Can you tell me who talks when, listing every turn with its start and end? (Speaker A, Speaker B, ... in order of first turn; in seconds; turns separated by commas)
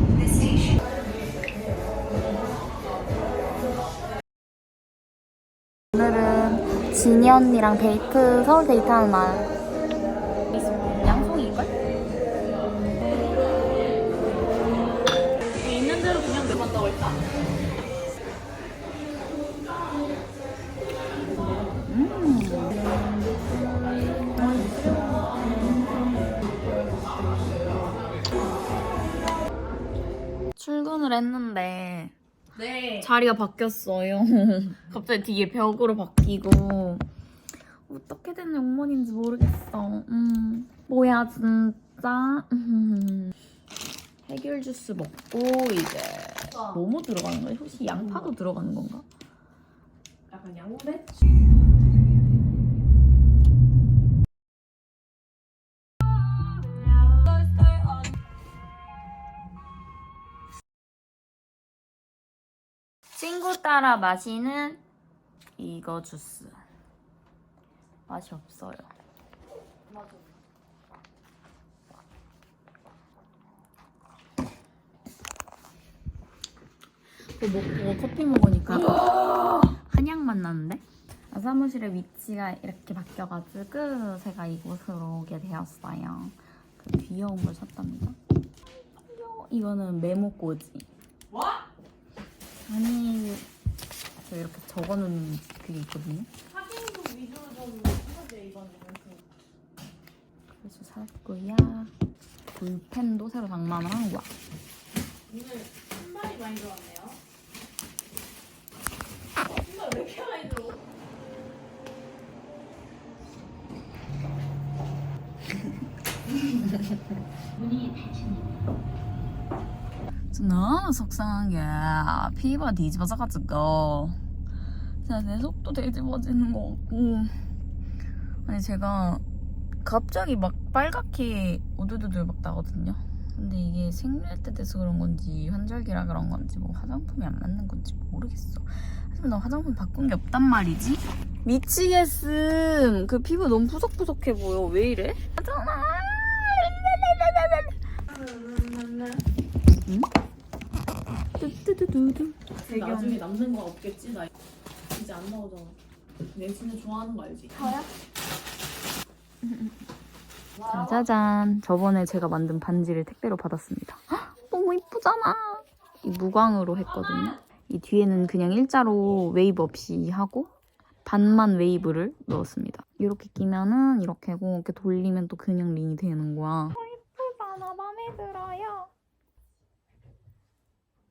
Speaker A: 5.9-9.5, Speaker A: 10.5-11.8, Speaker B: 15.4-17.3, Speaker A: 21.9-22.7, Speaker A: 24.4-25.5, Speaker A: 30.6-32.1, Speaker A: 32.7-37.0, Speaker A: 37.9-43.4, Speaker A: 44.2-49.0, Speaker B: 47.9-48.3, Speaker B: 50.3-51.2, Speaker B: 56.9-57.3, Speaker A: 63.1-64.8, Speaker A: 65.6-66.6, Speaker A: 68.1-68.9, Speaker A: 77.3-88.2, Speaker A: 89.0-90.9, Speaker B: 91.3-91.6, Speaker A: 92.7-93.5, Speaker A: 94.2-96.3, Speaker B: 96.5-99.3, Speaker A: 100.6-101.9, Speaker A: 102.5-104.3, Speaker B: 105.3-107.2, Speaker B: 109.5-110.8, Speaker A: 120.3-124.2, Speaker A: 125.0-127.4, Speaker A: 128.4-129.2, Speaker A: 129.8-147.8, Speaker B: 148.1-149.2, Speaker A: 149.8-150.1, Speaker A: 151.4-153.2, Speaker B: 152.6-154.3, Speaker B: 154.9-155.8, Speaker B: 156.3-157.7, Speaker A: 157.5-157.9, Speaker A: 159.4-159.8, Speaker A: 160.6-170.5, Speaker A: 171.1-178.9